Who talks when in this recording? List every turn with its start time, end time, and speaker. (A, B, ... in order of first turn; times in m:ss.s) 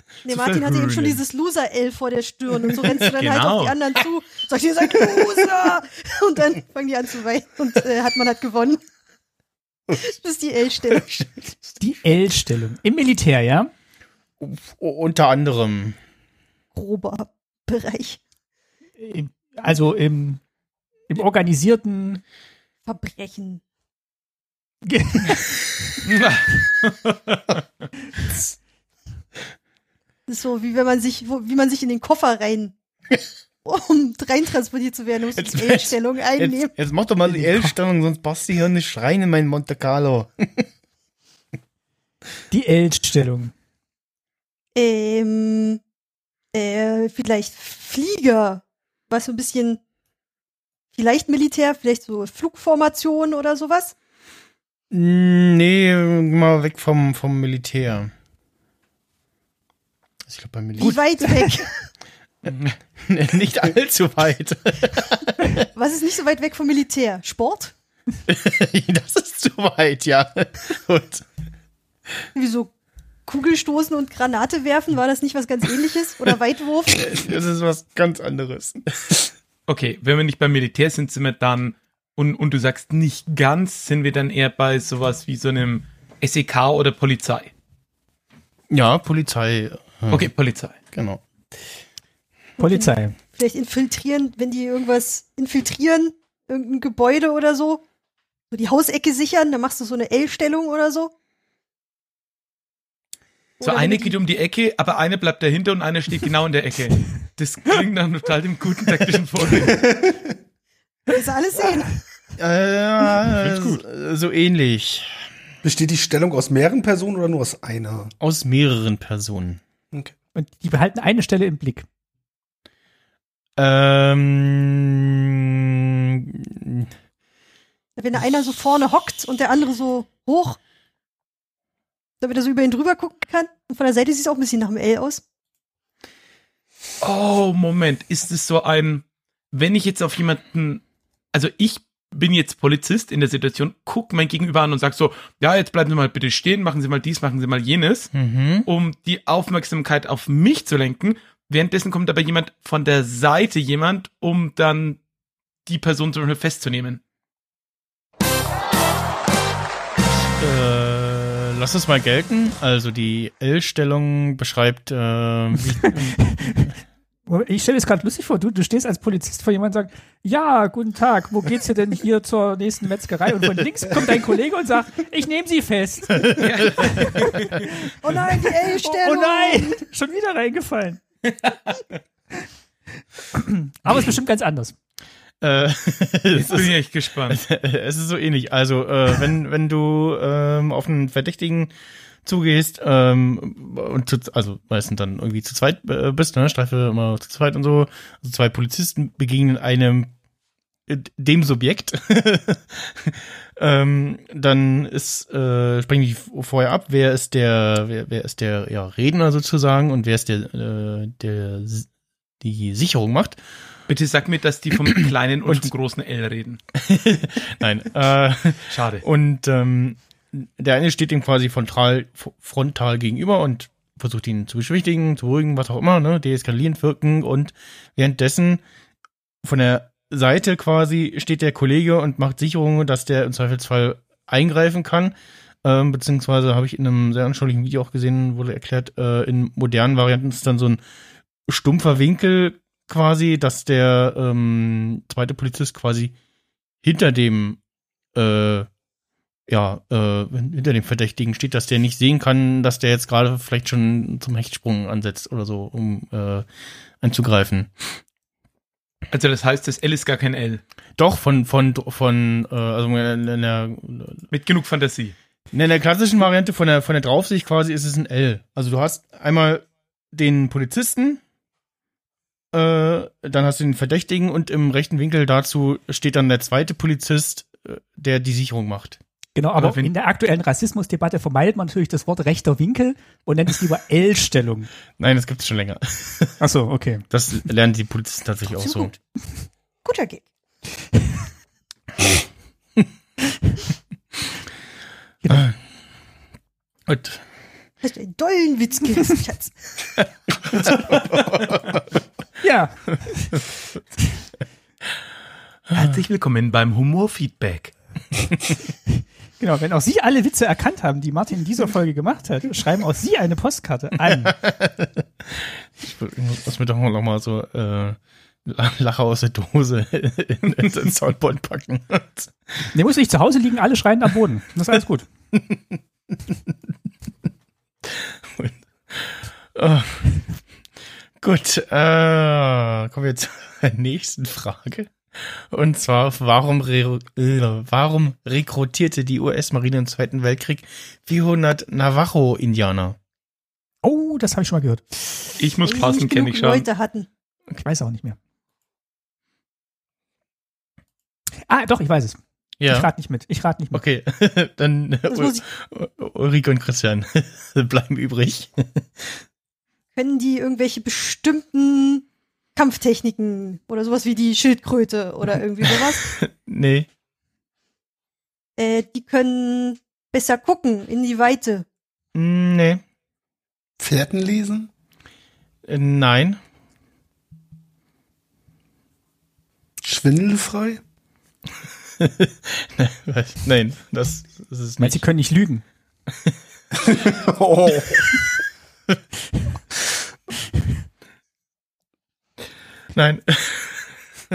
0:00.2-0:08.8 A
0:00.3-0:01.2 B
0:03.1-0:03.8 B
0:10.0-0:11.2 A
0:11.1-0:11.7 C
0:11.8-0:13.7 D
0:14.4-0:16.0 C
0:16.8-0:18.2 A
0:19.0-0:20.4 D
0:21.1-0:22.2 D
0:22.9-0:23.6 A
0:24.8-0:25.7 D
0:26.1-0:27.6 B
0:30.3-0:32.8 A
0:33.6-0:36.7 A
0:35.4-0:40.6 C
0:37.3-0:37.7 D
0:42.5-0:43.5 D
0:44.8-0:45.8 A
0:46.5-0:49.8 A
0:50.9-0:53.9 A
0:54.9-0:58.1 C
1:00.3-1:01.2 C
1:00.8-1:01.7 A
1:02.4-1:05.6 C
1:05.7-1:07.7 A
1:08.3-1:11.2 C
1:12.4-1:12.7 A
1:13.3-1:17.1 A
1:16.9-1:19.3 C
1:19.7-1:27.5 B
1:28.7-1:30.3 C
1:30.1-1:30.8 B
1:30.9-1:31.2 C
1:32.6-1:37.8 A
1:32.6-1:33.2 D
1:38.5-1:41.1 A
1:43.6-1:44.2 A
1:43.6-1:49.8 B
1:49.6-1:50.4 E
1:51.1-1:51.9 A
1:52.4-1:55.3 C
1:53.4-1:53.7 B
1:55.6-1:58.1 E
1:58.2-1:59.6 C
2:00.4-2:01.9 D
2:03.6-2:06.9 C
2:08.0-2:10.6 A
2:12.2-2:15.2 A
2:17.0-2:28.1 B
2:28.1-2:28.7 C
2:28.6-2:35.0 B
2:35.6-2:37.0 B
2:40.4-2:46.7 C
2:45.8-2:46.7 D
2:47.3-2:57.5 D
2:56.4-2:57.5 B
2:58.0-2:59.8 A
2:58.4-3:01.0 D
3:03.3-3:04.8 D
3:05.4-3:06.8 C
3:06.4-3:07.4 B
3:07.3-3:11.7 C
3:12.2-3:20.1 C
3:20.9-3:31.9 C
3:32.4-3:33.4 C
3:33.9-3:36.6 B
3:34.9-3:35.7 C
3:36.8-3:48.6 C
3:38.7-3:39.0 B
3:49.4-4:00.8 C
4:01.5-4:06.1 C
4:06.8-4:07.6 C
4:08.1-4:08.7 C
4:09.5-4:16.5 C
4:17.0-4:18.0 C
4:19.1-4:20.6 B
4:21.0-4:24.3 C
4:24.3-4:25.2 B
4:25.5-4:31.2 C
4:32.5-4:39.0 C
4:39.4-4:44.7 D
4:39.6-4:39.9 B
4:45.0-4:46.4 C
4:46.4-4:47.0 D
4:47.1-4:48.9 C
4:48.6-4:48.9 A
4:49.8-4:50.2 A
4:55.3-4:55.6 C
4:56.9-4:57.2 C
4:57.8-4:59.6 A
5:00.0-5:01.8 C
5:02.4-5:03.4 D
5:05.7-5:06.0 C
5:05.7-5:07.7 B
5:09.4-5:14.4 D
5:14.1-5:22.3 C
5:22.7-5:25.1 D
5:25.3-5:26.6 C
5:27.9-5:30.3 C
5:31.2-5:43.0 C
5:43.8-5:44.8 D
5:45.4-5:46.7 B
5:45.6-5:47.1 A
5:47.6-5:48.2 D
5:51.5-5:53.8 D
5:52.6-5:52.9 C
5:53.7-5:59.2 C
5:55.1-5:55.4 A
5:59.9-6:06.1 A
6:05.6-6:06.9 C
6:08.6-6:11.6 A
6:12.1-6:12.8 C
6:13.8-6:14.7 E
6:15.6-6:16.4 C
6:19.8-6:20.8 E
6:22.0-6:25.0 C
6:24.8-6:25.6 D
6:26.8-6:28.1 E
6:32.9-6:33.9 C